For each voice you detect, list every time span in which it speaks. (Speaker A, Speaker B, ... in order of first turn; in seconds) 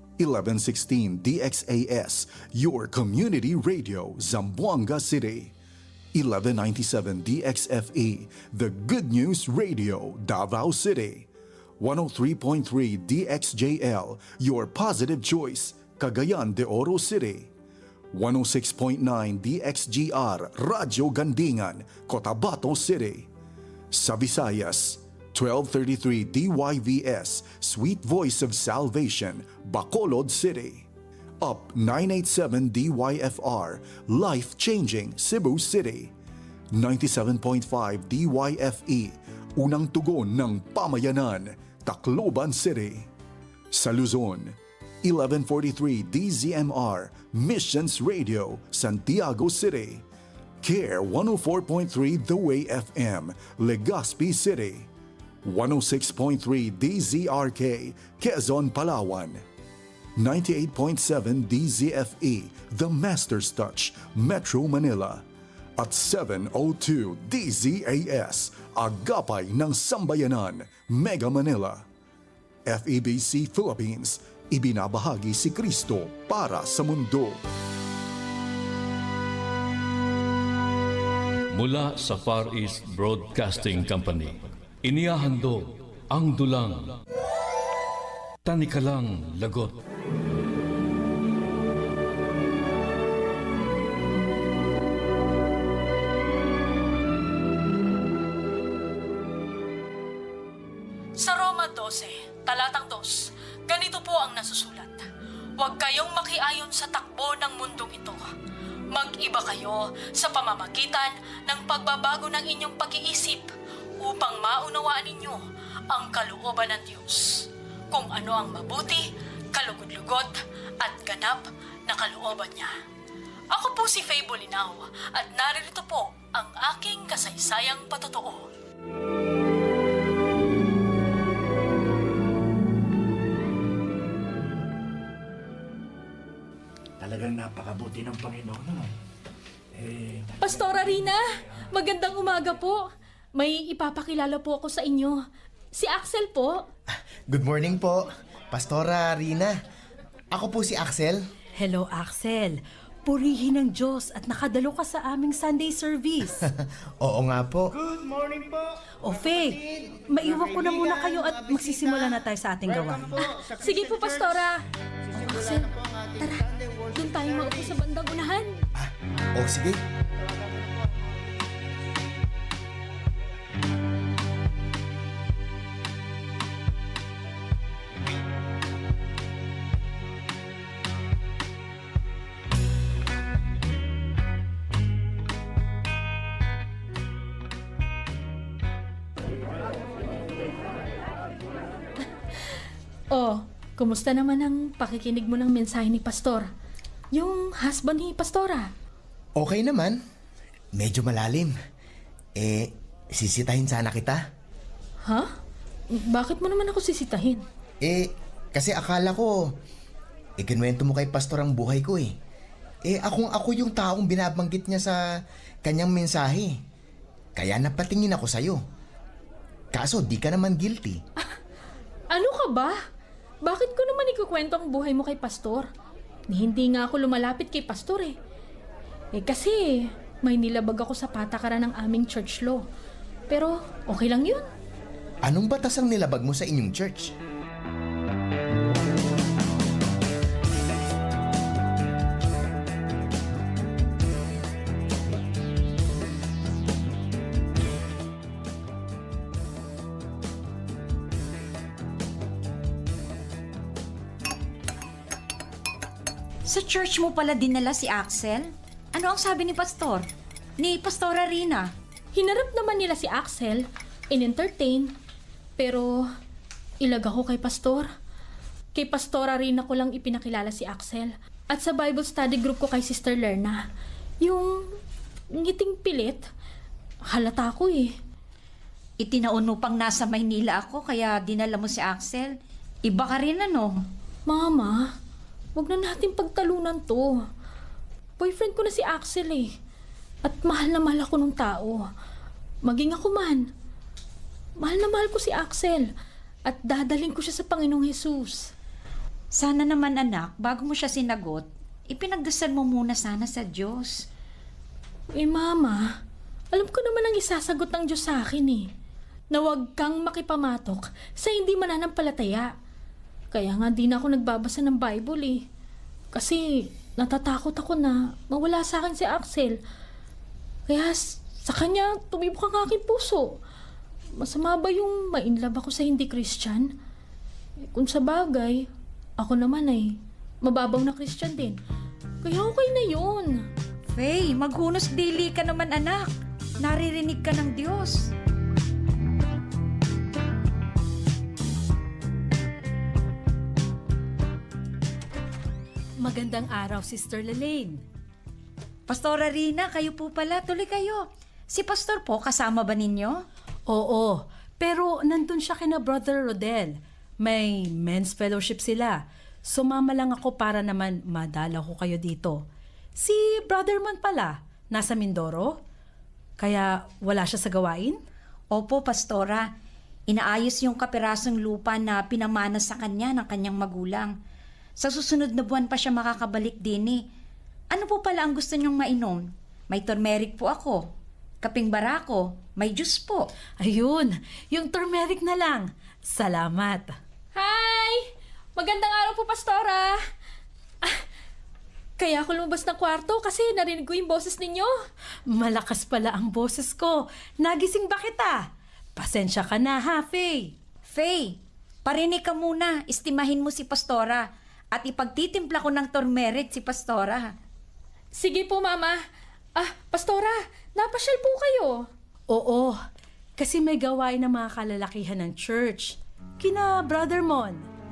Speaker A: 0.2-5.5, 6.1-11.3, 11.8-17.5, 18.1-23.3, 23.9-30.9, 31.4-36.1, 36.7-43.1, 43.7-50.0, 50.6-54.9, 55.4-59.4, 60.2-65.2, 65.8-71.8, 72.7-77.4
Speaker B: 81.5-87.0, 88.5-89.8
Speaker C: 101.3-103.1, 103.7-105.0, 105.6-108.2, 109.0-113.5, 114.0-115.4, 116.0-117.3, 118.7-119.0, 119.6-120.3, 120.8-121.4, 122.0-122.6
Speaker D: 101.5-103.0, 104.1-105.0, 106.8-108.0, 109.0-109.6, 110.3-110.9, 111.6-113.2, 114.3-115.3, 116.0-117.1, 118.0-118.9, 119.6-120.2, 120.9-121.3, 121.9-122.7, 123.6-128.5, 140.4-142.8, 143.3-145.2, 145.7-146.6, 163.2-164.6, 165.1-168.6, 193.1-196.5, 197.1-198.7, 205.0-205.3, 205.9-207.4, 222.1-222.8, 223.4-225.7, 226.3-228.1, 229.1-232.6, 233.3-234.4, 262.1-264.9, 265.6-266.0, 266.8-267.9, 268.7-273.6, 274.2-274.6, 275.3-276.2, 277.1-277.9, 284.3-284.9, 285.6-287.1, 288.2-289.5, 290.2-291.8, 292.6-293.4, 294.6-295.9, 296.4-298.5, 305.1-305.8, 306.5-308.7, 309.3-312.5, 313.3-315.4, 316.1-319.6, 320.7-323.3, 324.2-326.7, 327.7-328.7, 329.2-331.6, 332.2-333.4, 387.3-388.0, 388.6-390.0, 392.0-394.7, 408.1-409.0, 409.6-411.9
Speaker E: 137.0-138.9, 139.7-140.3
Speaker F: 147.3-149.5, 150.3-151.2, 157.0-157.7, 168.8-169.8, 199.4-200.0, 200.7-201.5, 202.3-204.2, 207.8-209.5, 210.4-212.1, 212.8-215.0, 215.6-216.5, 217.3-218.6, 219.7-221.0, 235.2-237.1
Speaker G: 151.6-156.5, 159.0-163.1, 346.0-347.8, 353.7-362.4, 363.0-365.6, 366.4-368.0, 383.6-386.9, 395.3-400.5, 412.3-412.8, 413.4-417.7
Speaker H: 256.5-260.1, 260.6-261.7, 279.0-282.3, 282.8-283.8, 299.3-303.9, 333.9-338.1, 348.9-353.2, 368.5-369.4, 370.1-374.1, 374.8-377.0, 377.7-380.9, 381.4-383.3, 400.9-407.3